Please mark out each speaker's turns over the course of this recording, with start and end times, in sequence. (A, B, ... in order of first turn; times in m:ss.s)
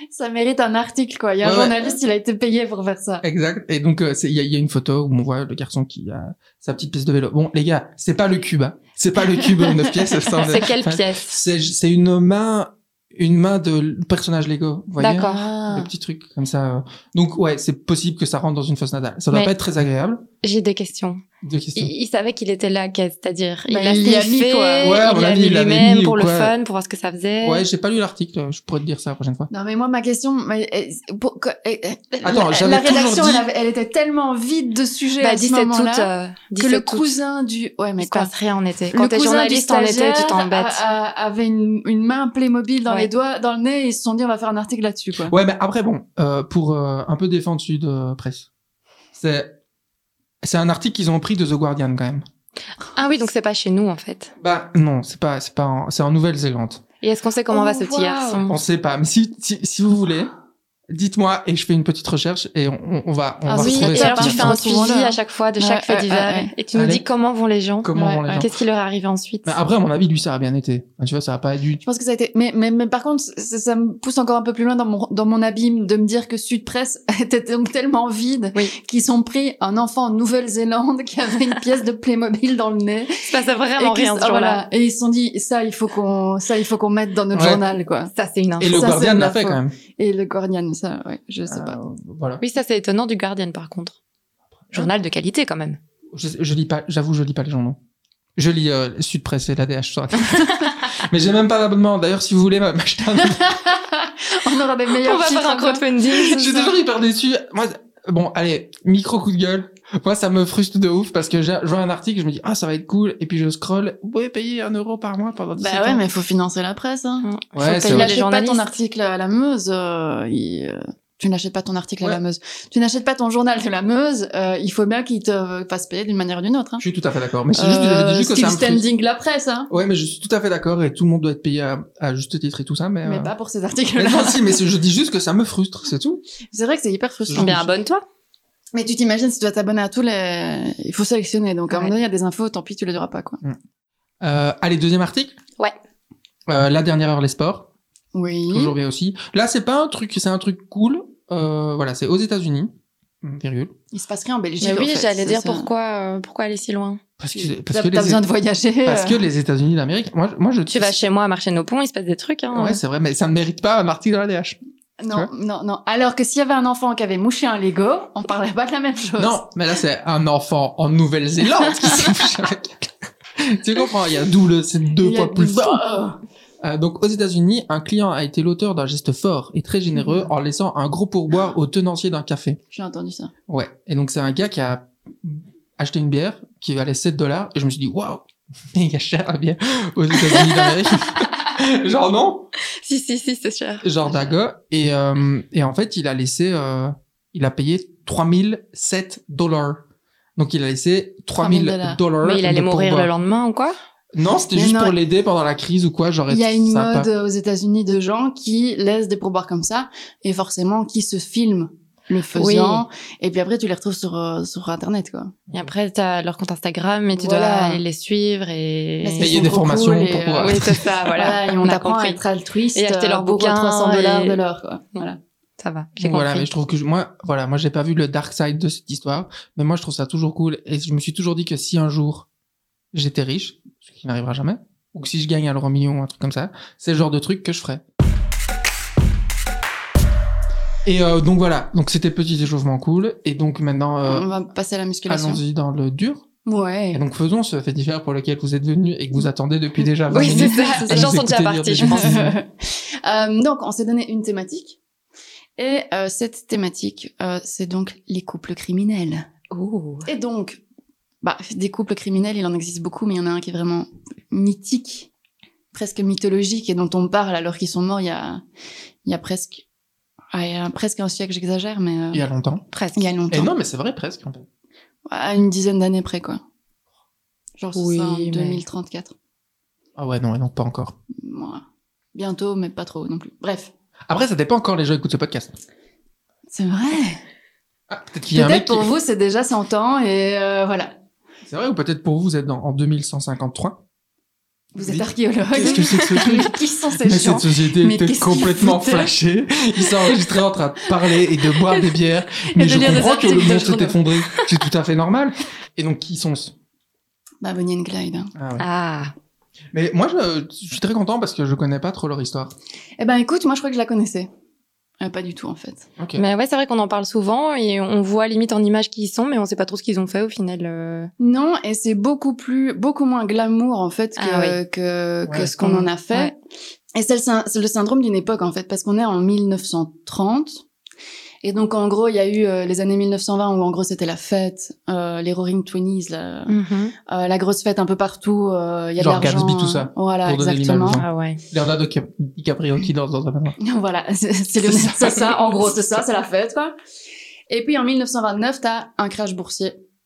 0:00.1-0:03.2 A
0:01.4-0:02.0 B
0:03.2-0:20.2 B
0:09.6-0:10.4 A
0:10.4-0:11.4 C
0:15.0-0:15.5 C
0:15.2-0:15.9 A
0:20.4-0:21.2 C
0:21.4-0:21.9 B
0:21.8-0:27.6 C
0:23.7-0:25.0 A
0:24.8-0:26.5 B
0:27.4-0:29.5 B
0:29.5-0:38.3 A
0:32.2-0:33.4 B
0:35.2-0:37.1 C
0:38.0-0:40.8 C
0:38.9-0:45.4 A
0:45.2-0:48.5 B
0:49.2-0:49.6 B
0:50.4-0:52.2 B
0:52.9-0:54.3 C
0:54.4-0:56.8 B
0:57.0-0:58.6 C
0:57.5-0:58.5 A
0:58.5-1:00.3 B
1:00.9-1:04.6 B
1:03.5-1:06.5 A
1:03.6-1:09.6 C
1:06.7-1:07.0 B
1:07.8-1:08.5 B
1:08.0-1:08.5 A
1:09.4-1:11.8 B
1:11.8-1:28.1 A
1:23.2-1:24.6 C
1:27.3-1:27.6 B
1:28.1-1:28.8 C
1:28.6-1:29.8 B
1:28.6-1:31.8 A
1:31.5-1:32.4 B
1:32.4-1:34.0 C
1:34.7-1:35.8 C
1:36.1-1:37.8 B
1:38.4-1:43.6 B
1:43.3-1:46.0 A
1:44.9-1:46.7 C
1:46.1-1:56.0 B
1:55.6-2:06.8 A
1:57.2-1:58.7 C
1:57.5-1:58.2 B
2:06.8-2:08.9 B
2:07.6-2:09.7 A
2:09.7-2:13.3 B
2:13.0-2:14.6 A
2:14.0-2:16.2 B
2:16.5-2:17.7 A
2:17.3-2:17.6 B
2:17.4-2:18.0 C
2:18.7-2:23.4 A
2:21.7-2:22.0 C
2:24.2-2:25.4 B
2:26.5-2:27.7 B
2:28.1-2:28.7 A
2:28.5-2:33.7 B
2:33.9-2:35.7 A
2:34.6-2:37.0 C
2:37.2-2:38.2 B
2:37.4-2:39.3 A
2:38.8-2:41.0 B
2:40.7-2:42.8 C
2:42.6-2:44.6 B
2:45.0-2:49.4 A
2:49.2-2:55.8 B
2:55.0-2:56.2 A
2:56.6-3:02.6 B
3:02.7-3:03.3 A
3:03.5-3:12.5 B
3:10.4-3:10.8 C
3:12.6-3:14.0 C
3:13.8-3:19.8 B
3:20.4-3:23.1 B
3:21.4-3:22.0 A
3:22.2-3:23.8 C
3:24.2-3:27.1 B
3:24.5-3:25.0 A
3:26.3-3:35.4 A
3:32.4-3:32.8 C
3:35.5-3:39.5 C
3:37.2-3:37.8 A
3:39.0-3:45.2 A
3:39.2-3:40.9 B
3:40.4-3:42.2 C
3:42.8-3:44.4 C
3:45.6-3:46.5 C
3:46.0-3:52.3 B
3:52.9-3:57.8 B
4:00.8-4:04.3 B
4:04.0-4:05.4 A
4:05.1-4:06.2 B
4:06.4-4:07.0 A
4:06.9-4:12.4 B
4:10.1-4:11.1 A
4:10.1-4:12.2 C
4:11.8-4:14.8 A
4:15.6-4:19.3 A
4:19.5-4:20.1 C
4:20.1-4:20.6 A
4:21.2-4:25.1 A
4:25.7-4:28.4 A
4:29.0-4:29.6 A
4:30.3-4:32.2 A
4:32.1-4:32.6 B
4:32.7-4:33.1 C
4:33.0-4:33.5 A
4:33.3-4:34.5 B
4:35.1-4:36.4 A
4:37.6-4:39.1 A
4:37.8-4:38.6 C
4:40.0-4:41.0 B
4:41.2-4:41.6 A
4:42.2-4:43.7 A
4:44.1-4:45.6 B
4:46.5-4:47.2 A
4:47.9-4:48.9 B
4:48.3-4:50.9 A
4:51.5-4:53.8 B
4:54.7-4:59.1 A
4:54.8-5:06.5 B
4:55.7-4:56.1 C
5:02.5-5:04.0 A
5:07.4-5:08.3 A
5:08.4-5:08.7 B
5:08.6-5:09.1 C
5:09.7-5:12.6 B
5:13.0-5:14.3 A
5:15.0-5:15.9 A
5:16.0-5:16.2 B
5:16.2-5:21.1 C
5:21.2-5:26.4 A
5:24.2-5:24.6 C
5:25.3-5:25.7 B
5:25.6-5:26.3 C
5:27.0-5:30.6 A
5:31.4-5:36.6 A
5:36.5-5:36.9 C
5:37.1-5:41.0 A
5:39.0-5:43.6 B
5:40.9-5:41.4 C
5:43.6-5:46.7 A
5:44.6-5:45.8 B
5:47.5-5:49.8 A